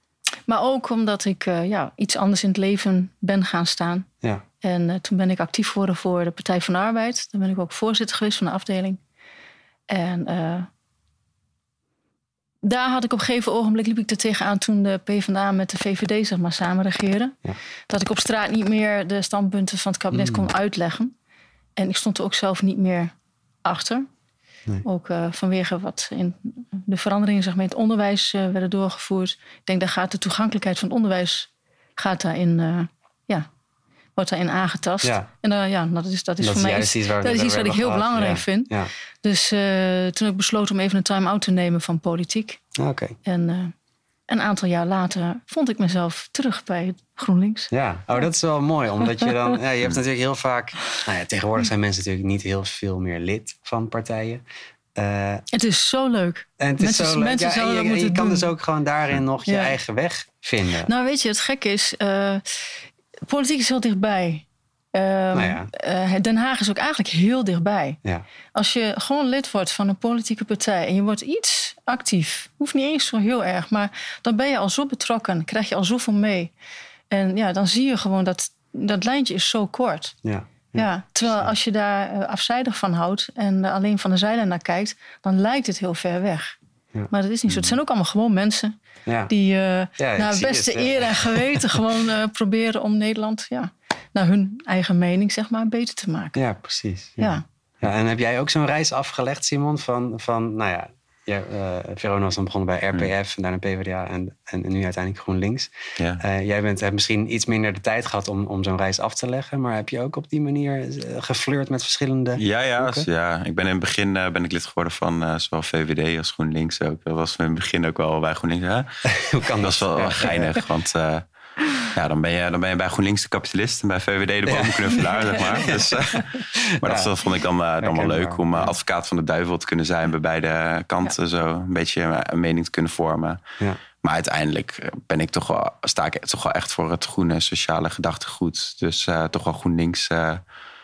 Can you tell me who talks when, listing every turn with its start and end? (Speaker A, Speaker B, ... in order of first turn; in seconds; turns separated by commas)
Speaker A: 0.5-4.1, Speaker A: 4.6-9.0, Speaker A: 9.9-10.7, Speaker A: 12.6-17.4, Speaker A: 17.9-21.1, Speaker B: 20.1-20.5, Speaker A: 21.8-23.1, Speaker A: 23.6-24.1, Speaker A: 24.8-33.5, Speaker A: 34.1-42.6, Speaker B: 35.0-35.3, Speaker B: 36.4-38.9, Speaker B: 42.8-43.2, Speaker A: 43.2-43.7, Speaker A: 44.3-47.7, Speaker B: 47.7-54.4, Speaker B: 54.9-55.4, Speaker A: 55.5-58.5, Speaker B: 56.6-60.9, Speaker A: 59.5-59.8, Speaker A: 60.8-68.0, Speaker B: 65.3-65.7, Speaker A: 68.5-76.5, Speaker A: 77.1-80.2, Speaker B: 80.2-81.5, Speaker A: 80.7-86.5, Speaker A: 87.1-88.7, Speaker B: 89.0-89.3, Speaker A: 89.3-96.4, Speaker B: 90.0-91.8, Speaker B: 96.3-113.1, Speaker A: 97.2-97.4, Speaker C: 112.4-119.1, Speaker B: 119.0-120.6, Speaker C: 119.6-121.2, Speaker C: 121.8-133.4, Speaker B: 124.5-127.1, Speaker B: 127.8-128.7, Speaker C: 134.0-140.4